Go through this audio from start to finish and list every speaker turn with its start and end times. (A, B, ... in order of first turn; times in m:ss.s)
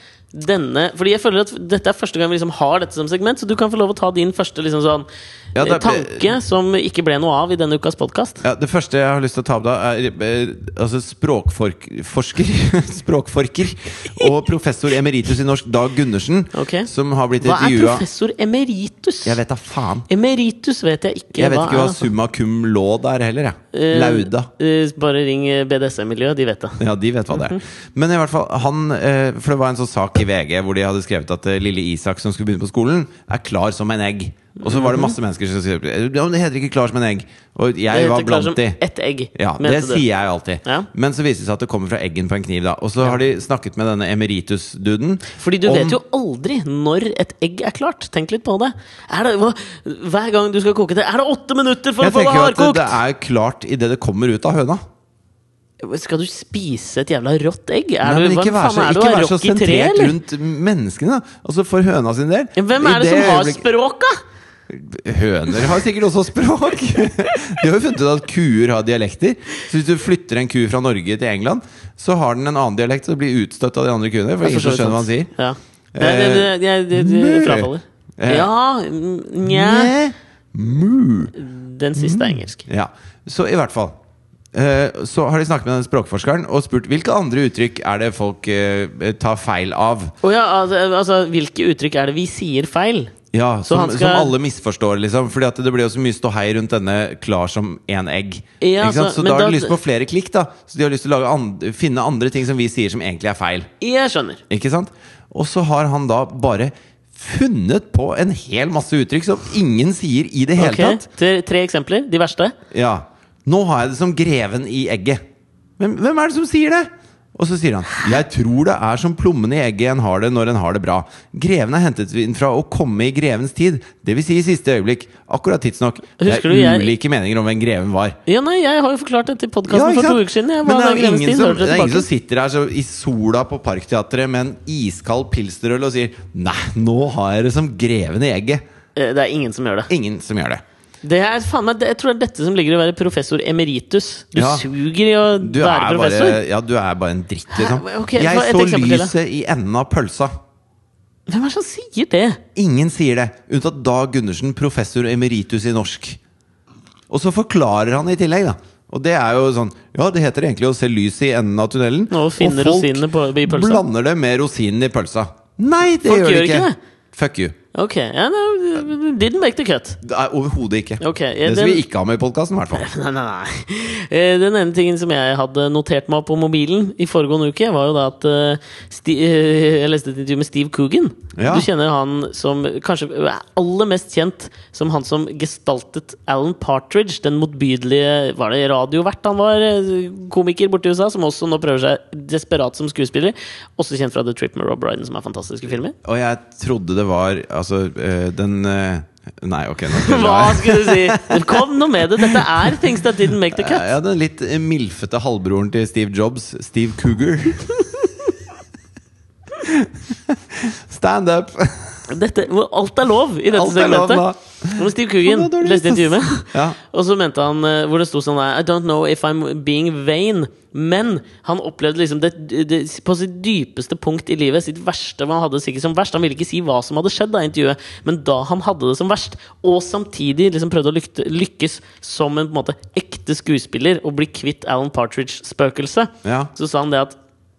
0:00.3-0:08.4 A
0:05.6-0:06.4 B
0:08.4-0:18.0 B
0:16.5-0:19.4 A
0:19.2-0:20.1 B
0:20.1-0:22.1 A
0:21.3-0:24.5 B
0:23.7-0:27.6 A
0:26.8-0:38.8 B
0:34.6-0:35.2 A
0:37.9-0:40.0 A
0:39.4-0:46.0 B
0:45.3-0:53.0 A
0:52.0-0:54.8 B
0:55.8-1:00.2 A
0:58.0-1:03.6 B
1:02.6-1:04.2 A
1:04.7-1:15.3 B
1:14.4-1:19.9 A
1:16.0-1:18.5 B
1:19.4-1:21.4 B
1:21.4-1:22.6 A
1:22.0-1:23.9 B
1:24.5-1:30.1 B
1:30.2-1:33.1 A
1:33.3-1:43.7 B
1:33.7-1:34.3 A
1:38.6-1:39.8 A
1:43.8-1:44.4 A
1:44.5-1:51.1 B
1:50.6-1:52.6 A
1:52.7-1:55.2 B
1:55.8-2:08.2 B
2:06.2-2:06.9 A
2:08.3-2:12.1 A
2:09.7-2:18.6 B
2:19.0-2:19.9 A
2:19.9-2:20.6 B
2:21.0-2:26.4 A
2:24.4-2:24.7 B
2:25.4-2:30.3 B
2:27.5-2:29.1 A
2:31.3-2:32.4 A
2:32.6-2:36.2 B
2:37.1-2:47.6 B
2:42.1-2:43.8 A
2:46.0-2:46.8 A
2:47.7-2:50.0 A
2:50.0-2:52.9 B
2:51.0-2:51.8 A
2:52.8-3:16.0 A
3:01.4-3:01.7 B
3:16.0-3:21.6 B
3:19.9-3:23.8 A
3:22.2-3:22.8 B
3:23.5-3:27.9 B
3:29.6-3:32.1 B
3:32.1-3:57.2 A
3:33.5-3:36.8 B
3:56.2-3:56.5 B